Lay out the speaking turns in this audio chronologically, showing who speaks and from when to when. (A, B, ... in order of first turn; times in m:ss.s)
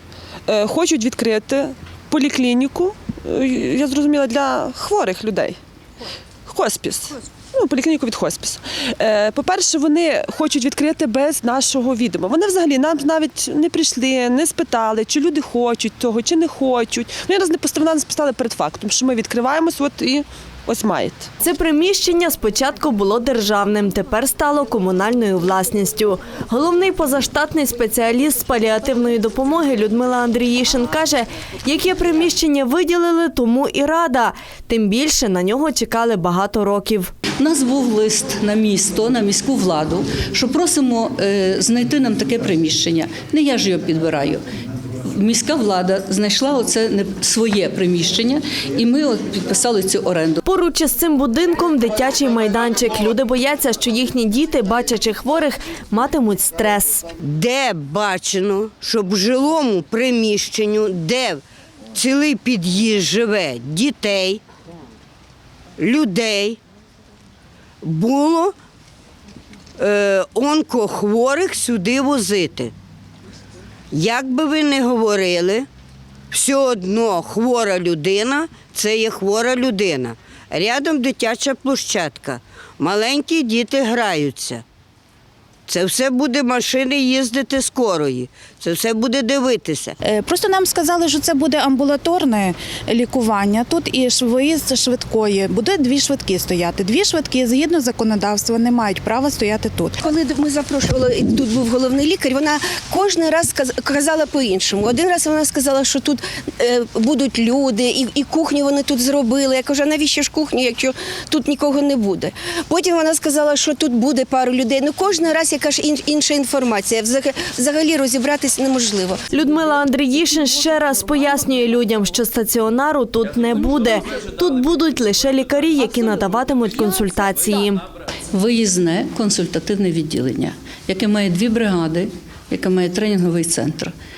0:00.5-0:05.6 A
0:06.4-0:21.3 A
0:21.4-0:37.1 B
0:37.4-0:44.4 C
0:45.0-0:50.4 C
0:50.4-0:57.1 B
0:57.2-1:01.4 D
1:01.9-1:04.4 D
1:05.8-1:06.6 D
1:07.8-1:08.5 D
1:09.8-1:12.7 D
1:13.9-1:15.7 D
1:16.3-1:24.6 D
1:25.7-1:30.0 D
1:30.0-1:39.9 E
1:40.0-1:59.2 F
1:59.3-2:07.8 B
2:08.3-2:13.9 C